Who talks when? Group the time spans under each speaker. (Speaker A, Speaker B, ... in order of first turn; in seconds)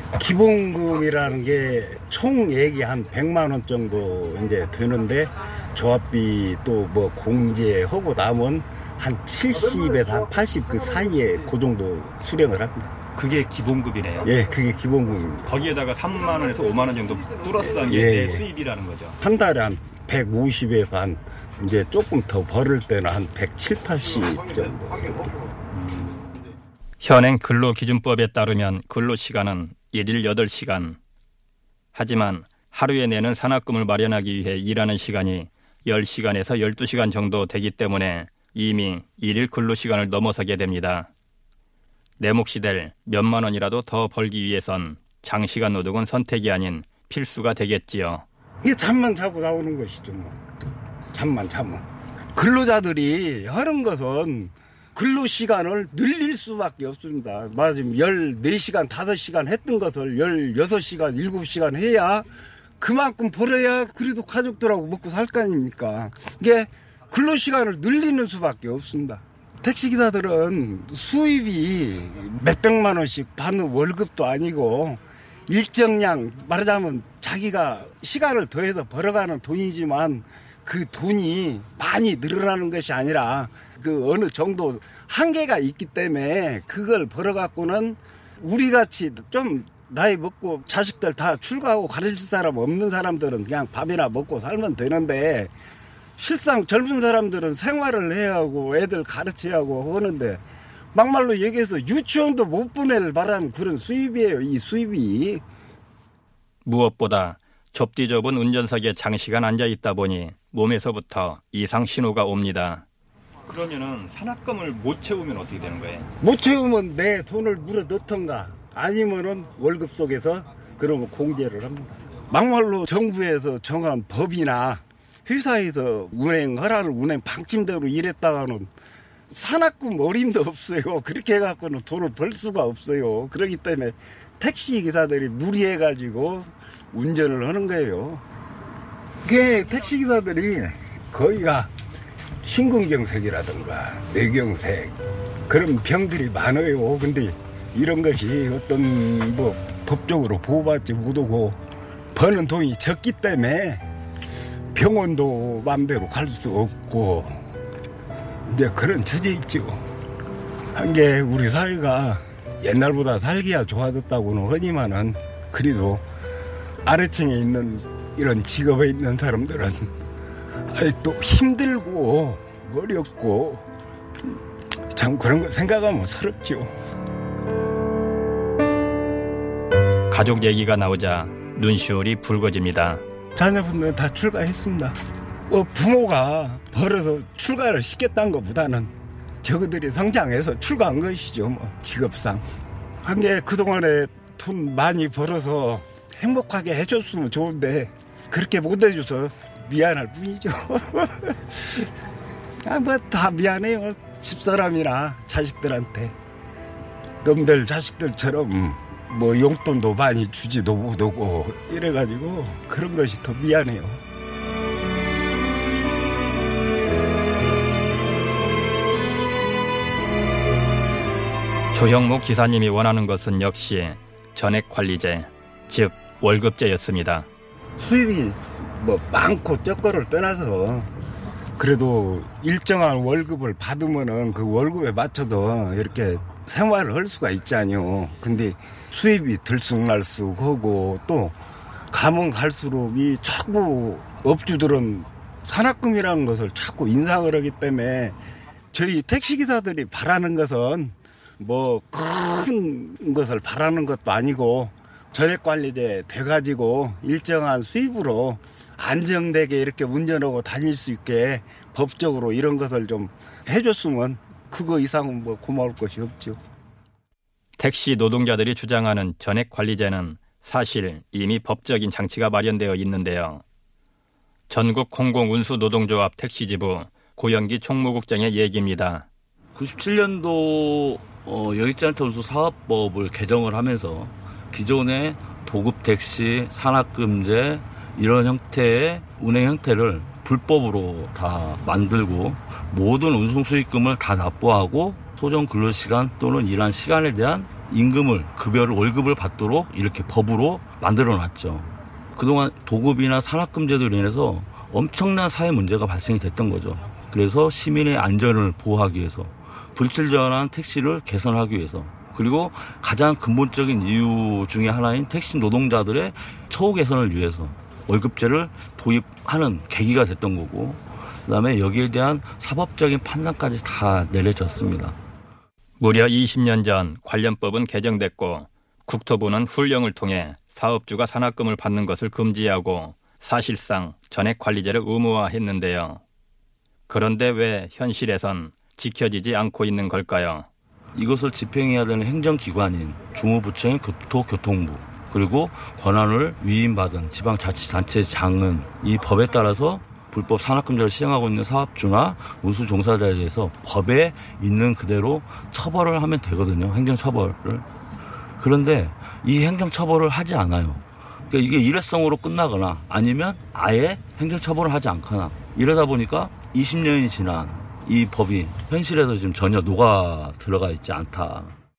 Speaker A: 0.1-12.9, 14.2-15.5, 17.9-18.4, 19.2-25.2, 48.6-50.4, 51.1-51.8, 52.4-62.2, 62.8-95.5, 96.2-100.4, 100.9-105.4, 116.2-128.7, 129.3-138.2, 139.2-141.7, 142.4-144.9, 145.5-151.6, 152.1-153.8, 154.7-157.4, 158.5-159.8, 160.8-166.0, 166.8-169.9, 170.7-173.6, 174.9-176.7, 183.3-184.9, 185.5-188.9, 189.4-192.4, 193.0-201.9, 202.7-206.1, 207.2-214.0, 227.8-230.9, 231.6-241.3, 241.9-248.2, 248.7-266.4
Speaker B: 13.2-14.3, 15.4-19.2, 25.8-26.2, 27.0-31.0, 31.9-41.1, 42.2-48.2, 106.6-112.8, 113.5-116.1, 180.1-183.0, 221.7-227.3, 267.6-273.4, 274.5-279.1, 325.8-336.0, 336.9-340.5
Speaker C: 279.6-324.9, 340.9-357.6, 358.4-371.6